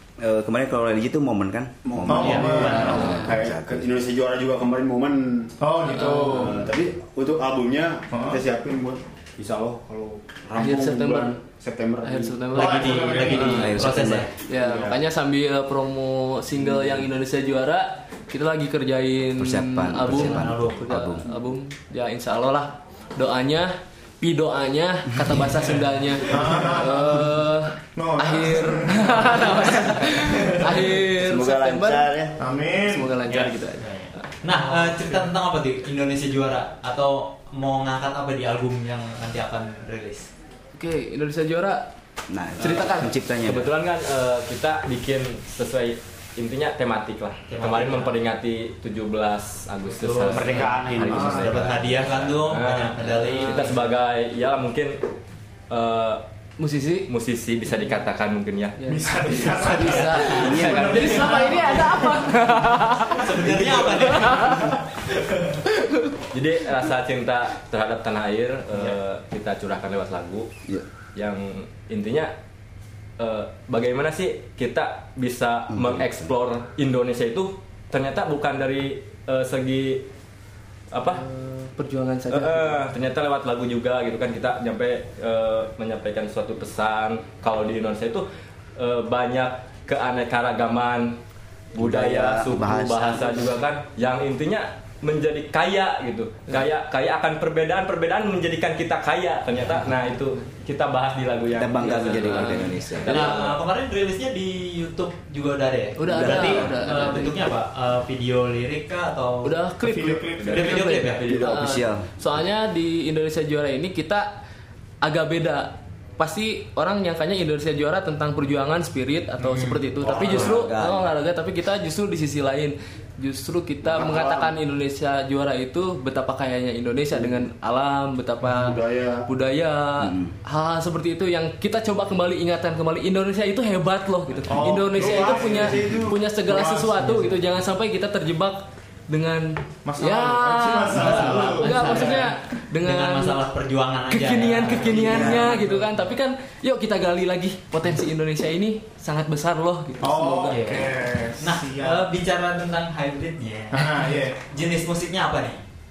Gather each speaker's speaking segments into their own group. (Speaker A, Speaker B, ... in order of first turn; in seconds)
Speaker A: 0.2-3.9, 13.4-14.3, 19.4-21.3, 31.1-32.4, 42.3-43.7, 60.4-60.9, 75.7-76.3, 91.8-93.6, 101.5-103.3, 106.1-106.8, 111.3-112.1, 120.2-121.1, 130.0-130.4, 144.9-145.6
Speaker B: 1.9-5.5, 6.3-13.2, 14.5-15.0, 50.3-51.4, 120.0-120.7, 123.8-124.5, 127.1-127.4, 128.4-129.3, 134.8-136.3
Speaker C: 2.1-3.2, 5.6-6.6, 8.1-8.4, 12.5-13.8, 26.3-27.4, 28.0-30.9, 32.4-33.1, 51.1-51.5, 58.9-62.2, 109.8-110.8, 134.4-137.4, 139.8-142.3, 150.0-152.1, 153.7-154.4
Speaker D: 2.1-3.0, 12.6-14.3, 20.0-20.8, 33.3-40.3, 47.5-48.2, 49.9-53.8, 59.5-60.7, 63.1-65.5, 103.1-109.6, 110.5-111.3, 119.4-119.9, 141.0-145.7, 150.5-155.6
Speaker E: 2.9-3.3, 5.9-6.6, 10.6-11.4, 12.0-13.7, 14.5-32.1, 32.7-33.9, 40.8-41.9, 42.6-43.1, 53.4-53.8, 56.6-57.1, 58.8-63.3, 64.0-64.7, 65.8-66.1, 81.1-82.8, 101.8-103.3, 106.0-107.4, 109.4-114.4, 115.0-143.4, 144.1-150.9
Speaker F: 43.4-55.0, 55.7-56.2, 57.1-58.8, 60.5-62.5, 66.3-70.5, 71.2-72.3, 73.2-80.1, 80.9-81.2, 82.3-91.2, 91.8-103.6, 110.4-111.8